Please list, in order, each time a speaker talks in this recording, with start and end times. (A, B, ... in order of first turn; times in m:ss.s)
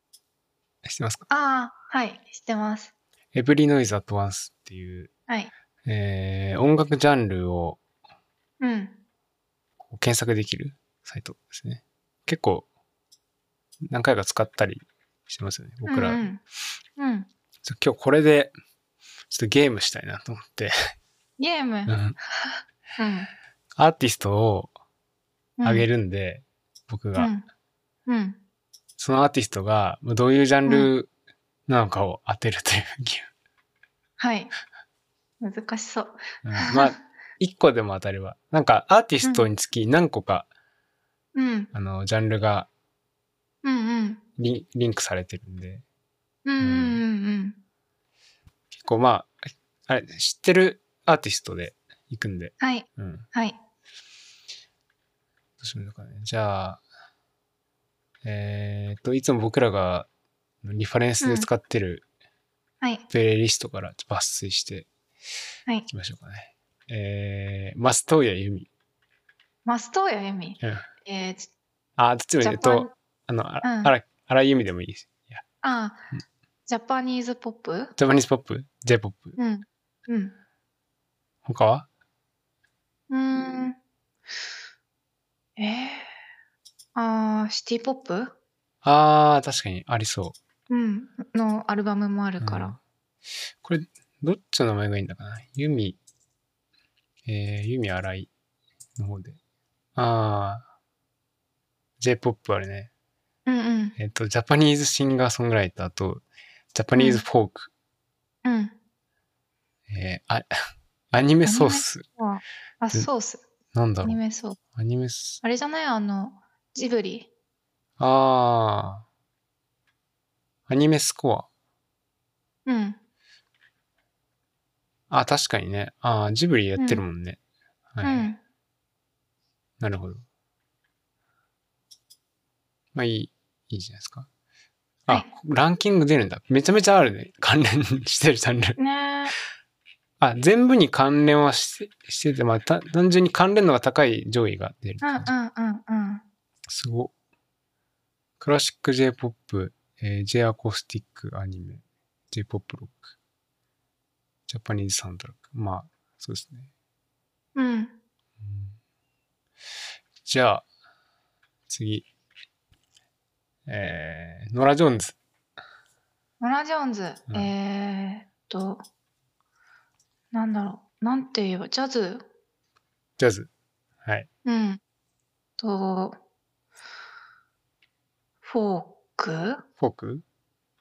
0:00.8-0:01.2 A
0:01.3-0:02.9 B
0:03.3-0:05.1 A
0:05.8-0:07.8 A
0:08.6-0:09.0 B
0:09.8-0:12.7 A
0:13.9-0:16.3 A
0:15.9-0:16.4 B
0:17.0-0:17.3 B
0:17.6-0:18.5 A
0:19.3-0:20.7 A
0:21.4-0:23.3 B
0:21.9-0:22.2 A
0:23.8-0:24.7 A
0:25.6-0:25.9 B
0:25.6-0:27.3 A
0:27.2-0:27.4 B
0:28.1-0:28.4 B
0:29.0-0:31.1 A
0:30.6-0:30.9 B
0:31.7-0:33.3 A
0:34.2-0:34.5 B
0:35.4-0:37.0 B
0:36.4-0:40.5 A
0:39.2-0:39.5 B
0:41.3-0:41.7 B
0:41.7-0:42.7 A
0:43.6-0:44.2 B
0:44.4-0:45.8 A
0:46.4-0:47.6 B
0:46.6-0:47.0 A
0:48.7-0:49.3 A
0:49.9-0:53.3 A
0:52.6-0:53.6 B
0:55.6-0:56.8 A
0:58.2-1:00.1 A
1:00.6-1:02.0 A
1:01.2-1:01.5 B
1:03.1-1:04.9 A
1:05.9-1:08.7 A
1:09.6-1:11.5 B
1:10.6-1:10.9 A
1:12.0-1:15.4 A
1:12.4-1:12.9 B
1:13.6-1:13.9 B
1:15.6-1:16.1 B
1:16.7-1:17.9 B
1:18.0-1:19.4 A
1:19.4-1:20.4 B
1:21.4-1:21.9 A
1:23.1-1:23.8 B
1:25.6-1:26.1 B
1:26.9-1:28.3 B
1:28.8-1:30.4 A
1:30.7-1:32.8 B
1:32.4-1:32.8 A
1:33.6-1:36.0 A
1:37.2-1:38.3 A
1:39.0-1:39.4 A
1:39.9-1:40.7 A
1:42.0-1:42.9 A
1:43.4-1:44.0 B
1:44.0-1:47.7 A
1:46.9-1:47.2 B
1:48.4-1:48.8 B
1:49.9-1:50.5 A
1:51.1-1:52.0 A
1:51.4-1:53.4 B
1:53.7-1:54.2 A
1:54.0-1:54.6 B
1:54.8-1:55.4 A
1:55.4-1:57.3 B
1:58.0-1:59.0 A
2:00.7-2:01.5 A
2:02.6-2:03.0 B
2:05.1-2:07.4 A
2:06.8-2:07.0 B
2:07.9-2:08.3 A
2:08.0-2:08.4 B
2:09.8-2:10.2 A
2:12.9-2:14.3 A
2:15.0-2:18.8 A
2:18.8-2:19.3 B
2:20.2-2:25.3 A
2:25.0-2:26.2 B
2:26.7-2:27.1 A
2:28.4-2:33.1 A
2:34.5-2:36.7 A
2:37.5-2:38.0 B
2:38.4-2:38.8 A
2:40.2-2:40.6 A
2:41.7-2:42.1 A
2:43.7-2:45.2 A
2:46.4-2:48.8 B
2:50.3-2:52.2 B
2:53.2-2:53.5 A
2:54.4-2:54.8 B
2:55.6-2:56.2 B
2:58.4-2:59.6 B
2:59.8-3:00.2 A